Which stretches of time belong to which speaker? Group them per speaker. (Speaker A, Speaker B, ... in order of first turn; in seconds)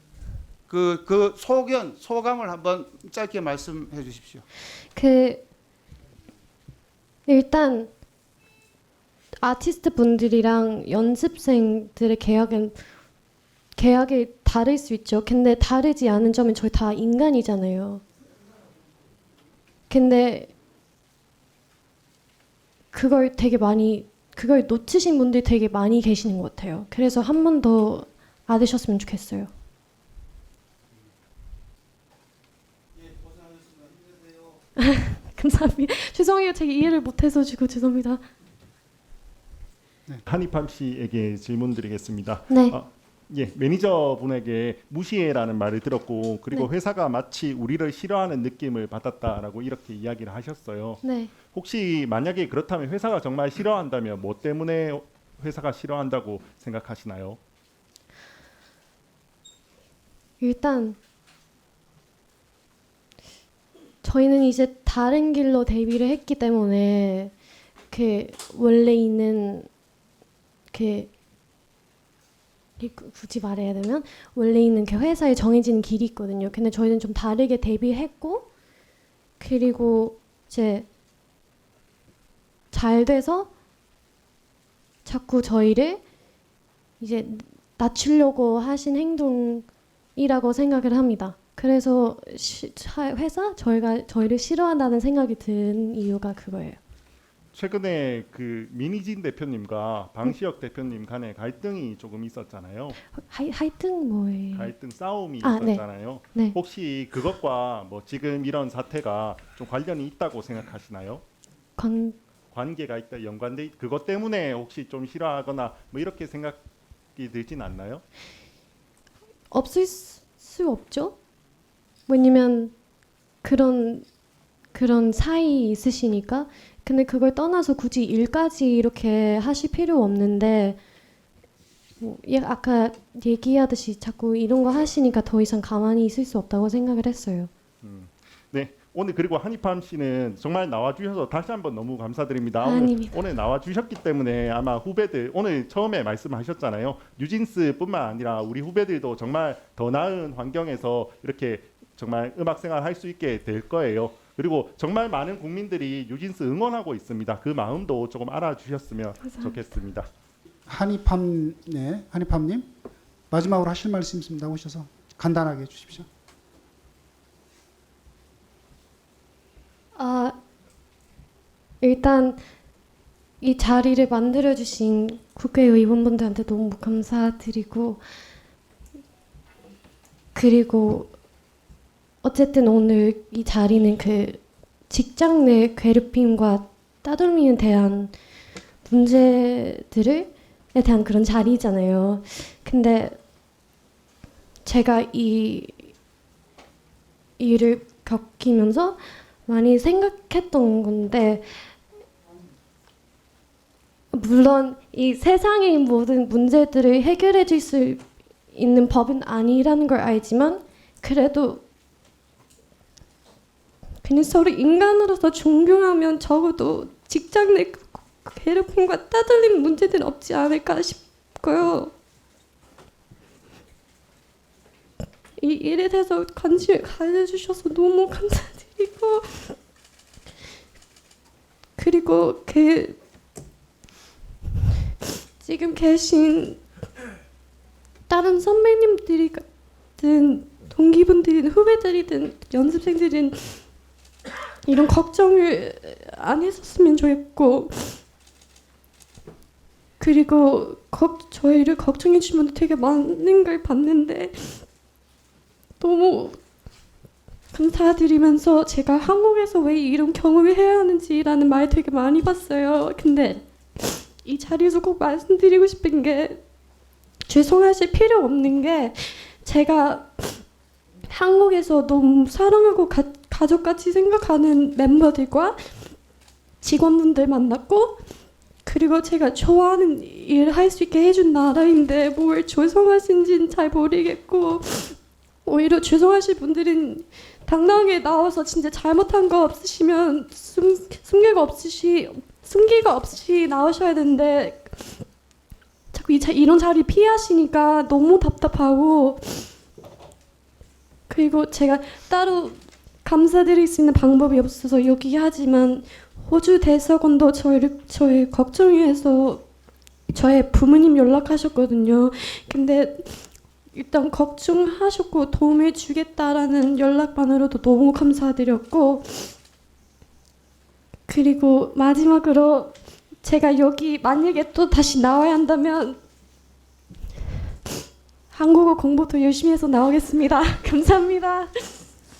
Speaker A: 0.7-4.4, 33.3-34.3
Speaker B: 4.9-5.4, 7.3-7.9, 9.4-12.8, 13.8-18.0, 19.9-20.5, 22.9-29.5, 34.8-38.2, 42.5-42.7, 51.0-51.3, 60.4-61.0, 64.0-67.3, 67.9-69.7, 70.7-71.1, 72.8-78.5, 79.4-80.9, 82.7-83.5, 85.0-86.0, 87.0-96.8, 103.1-104.7, 105.4-105.8, 111.8-112.2, 119.5-121.2, 122.1-122.7, 123.4-124.0, 124.7-130.8, 132.0-137.5, 142.6-143.2, 159.2-159.5, 169.9-170.3, 171.8-172.4, 173.4-178.0, 180.3-181.1, 182.2-188.1, 188.8-193.2, 194.6-195.9, 197.4-201.7, 204.1-211.6, 214.0-221.9, 225.4-229.5, 231.8-232.9, 235.4-236.6, 238.1-239.4, 240.0-243.6, 244.7-247.9, 250.0-254.6, 255.8-256.4, 257.5-266.4, 267.3-270.3, 271.1-275.6, 276.6-278.0, 278.6-284.9, 285.4-294.8, 295.9-299.5, 301.1-309.4, 310.1-313.2, 313.7-319.3, 321.1-326.0, 328.3-331.8
Speaker C: 40.3-57.4, 97.5-103.0, 104.5-111.2, 112.5-116.6, 117.2-118.0, 137.8-160.1
Speaker D: 160.7-162.7, 163.3-166.1